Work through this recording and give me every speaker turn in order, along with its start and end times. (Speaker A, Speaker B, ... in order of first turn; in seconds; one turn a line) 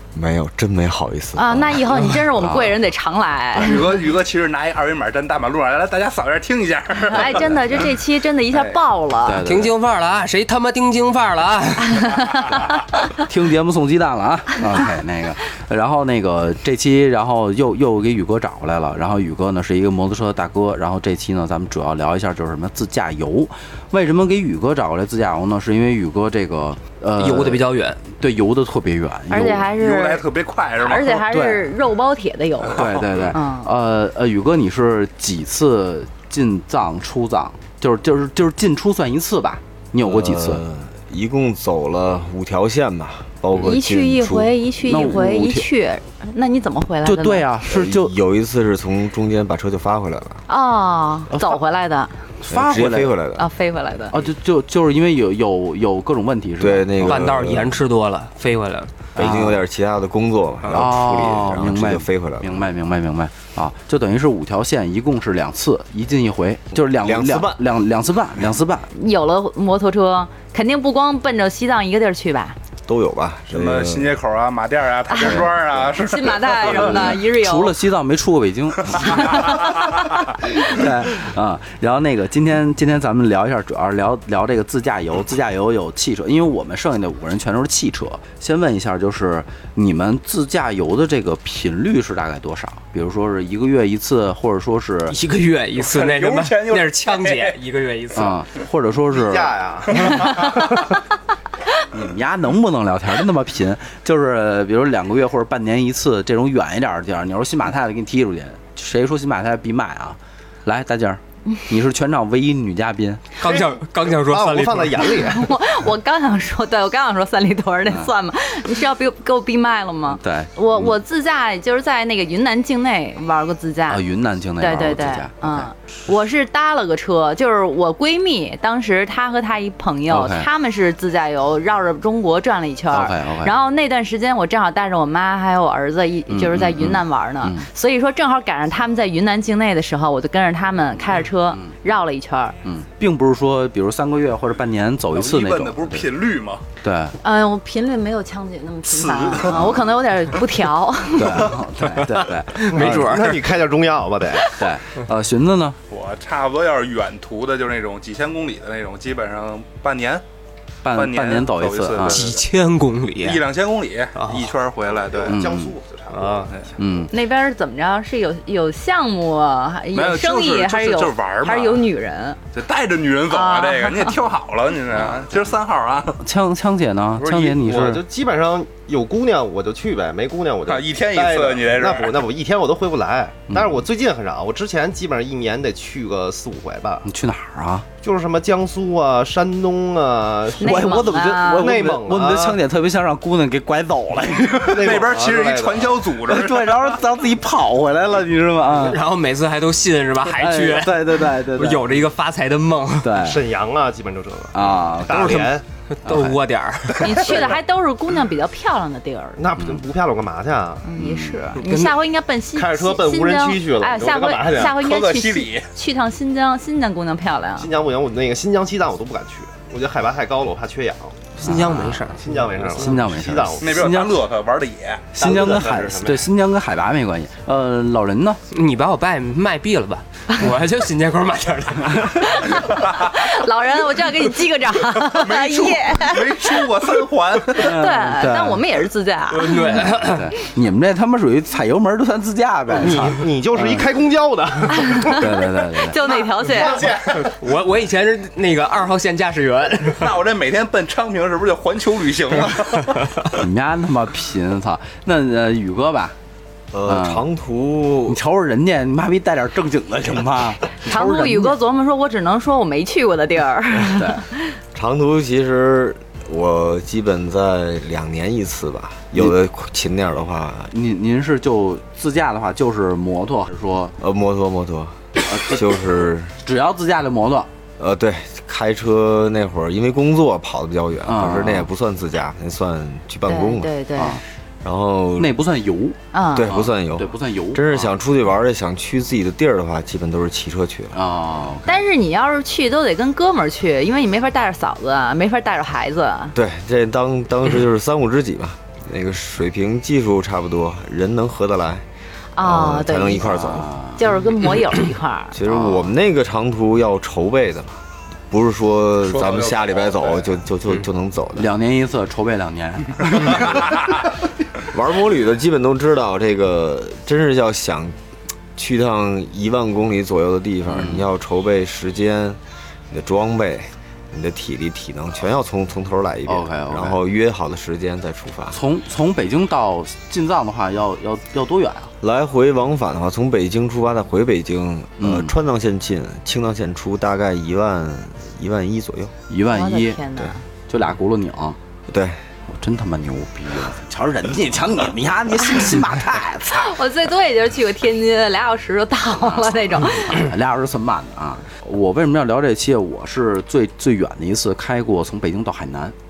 Speaker A: 0.1-2.2
Speaker B: 1.4-4.0
Speaker C: 2.4-2.8
Speaker D: 3.5-7.9
Speaker B: 7.1-9.4
Speaker C: 9.2-9.7
Speaker E: 9.4-12.6
Speaker B: 11.9-12.6
Speaker C: 13.2-29.7
Speaker E: 27.2-28.0
Speaker B: 29.3-33.7
Speaker D: 29.7-31.2
Speaker C: 31.3-31.7
Speaker C: 32.7-40.6
Speaker A: 40.0-44.6
Speaker B: 43.6-47.5
Speaker C: 44.9-45.7
Speaker C: 47.0-48.1
Speaker A: 47.7-50.5
Speaker B: 50.5-52.2
Speaker C: 51.3-51.6
Speaker C: 52.4-53.1
Speaker A: 52.5-53.5
Speaker B: 53.4-54.2
Speaker C: 54.1-57.2
Speaker A: 56.6-57.8
Speaker E: 57.0-58.9
Speaker C: 59.2-59.6
Speaker A: 59.2-62.6
Speaker C: 60.7-68.9
Speaker A: 66.7-67.6
Speaker B: 68.9-72.6
Speaker A: 72.9-74.2
Speaker D: 73.5-77.2
Speaker B: 75.1-77.7
Speaker C: 76.7-79.6
Speaker B: 79.0-79.9
Speaker C: 80.5-95.2
Speaker E: 95.1-98.4
Speaker D: 95.8-97.6
Speaker C: 98.2-99.5
Speaker F: 99.1-100.3
Speaker E: 100.1-100.4
Speaker C: 101.9-113.2
Speaker E: 113.4-115.2
Speaker F: 113.5-115.5
Speaker B: 115.2-124.0
Speaker C: 120.1-121.0
Speaker C: 123.9-125.7
Speaker B: 124.6-142.6
Speaker C: 130.1-130.5
Speaker C: 132.9-133.5
Speaker C: 136.3-137.7
Speaker C: 142.6-146.1
Speaker D: 145.1-146.7
Speaker C: 146.8-147.2
Speaker B: 147.2-151.6
Speaker D: 148.9-149.8
Speaker C: 149.5-149.8
Speaker C: 151.1-153.1
Speaker E: 151.9-153.5
Speaker F: 152.7-154.5
Speaker C: 154.5-155.8
Speaker D: 155.9-160.2
Speaker C: 160.8-162.3
Speaker D: 160.9-162.4
Speaker E: 162.1-163.4
Speaker D: 163.2-165.4
Speaker E: 164.2-164.5
Speaker F: 164.9-166.7
Speaker C: 165.3-165.7
Speaker E: 166.1-166.5
Speaker C: 166.8-167.1
Speaker B: 167.1-172.4
Speaker D: 169.9-171.8
Speaker D: 172.5-176.2
Speaker B: 173.3-174.2
Speaker C: 176.2-178.0
Speaker F: 177.2-187.1
Speaker D: 180.7-182.2
Speaker C: 183.5-183.8
Speaker C: 187.0-187.9
Speaker F: 188.0-190.8
Speaker C: 190.6-195.0
Speaker B: 190.6-191.7
Speaker F: 191.5-192.6
Speaker F: 194.7-196.0
Speaker D: 194.8-197.0
Speaker C: 196.2-199.0
Speaker E: 198.8-203.2
Speaker C: 200.3-202.0
Speaker C: 203.0-203.4
Speaker F: 203.2-205.6
Speaker C: 204.5-205.5
Speaker E: 205.1-207.4
Speaker C: 206.1-206.4
Speaker B: 207.0-209.4
Speaker F: 209.4-210.9
Speaker B: 210.8-217.7
Speaker C: 211.0-211.6
Speaker E: 211.6-212.0
Speaker F: 212.5-214.8
Speaker D: 214.6-215.7
Speaker F: 217.6-221.3
Speaker E: 221.4-222.9
Speaker C: 221.4-222.1
Speaker F: 222.2-223.9
Speaker C: 222.8-224.2
Speaker D: 223.6-225.2
Speaker C: 225.1-228.4
Speaker F: 225.2-226.3
Speaker E: 228.5-232.7
Speaker B: 232.2-236.8
Speaker D: 235.0-237.8
Speaker B: 237.5-239.9
Speaker C: 237.6-238.6
Speaker E: 239.3-240.3
Speaker C: 239.9-243.8
Speaker F: 242.8-245.3
Speaker B: 244.7-245.3
Speaker C: 245.1-246.0
Speaker B: 245.8-246.9
Speaker F: 246.0-247.3
Speaker E: 246.8-250.1
Speaker D: 249.8-253.2
Speaker C: 253.4-256.2
Speaker A: 256.7-258.2
Speaker C: 256.9-257.2
Speaker C: 258.1-261.6
Speaker B: 260.9-264.6
Speaker C: 263.9-264.2
Speaker A: 264.7-270.7
Speaker C: 270.7-274.0
Speaker A: 274.0-276.4
Speaker C: 275.3-275.8
Speaker C: 276.4-277.5
Speaker A: 277.8-283.7
Speaker C: 281.0-281.7
Speaker B: 283.3-284.2
Speaker C: 284.0-284.2
Speaker A: 284.6-285.3
Speaker C: 285.2-287.9
Speaker B: 286.1-286.6
Speaker A: 286.3-291.0
Speaker C: 290.9-291.8
Speaker B: 291.7-296.4
Speaker A: 296.3-301.9
Speaker B: 302.4-305.4
Speaker A: 302.4-303.7
Speaker C: 303.3-304.1
Speaker A: 305.3-311.5
Speaker C: 305.5-305.8
Speaker D: 309.1-310.1
Speaker C: 311.4-313.5
Speaker A: 314.6-318.0
Speaker A: 318.6-328.6
Speaker C: 320.7-321.1
Speaker C: 326.3-327.0
Speaker C: 328.5-331.9
Speaker A: 332.0-339.1
Speaker C: 335.0-335.3
Speaker C: 339.3-340.0
Speaker B: 339.5-340.4
Speaker C: 340.7-341.6
Speaker A: 341.9-342.2
Speaker C: 342.5-346.7
Speaker B: 346.5-350.3
Speaker C: 349.2-355.9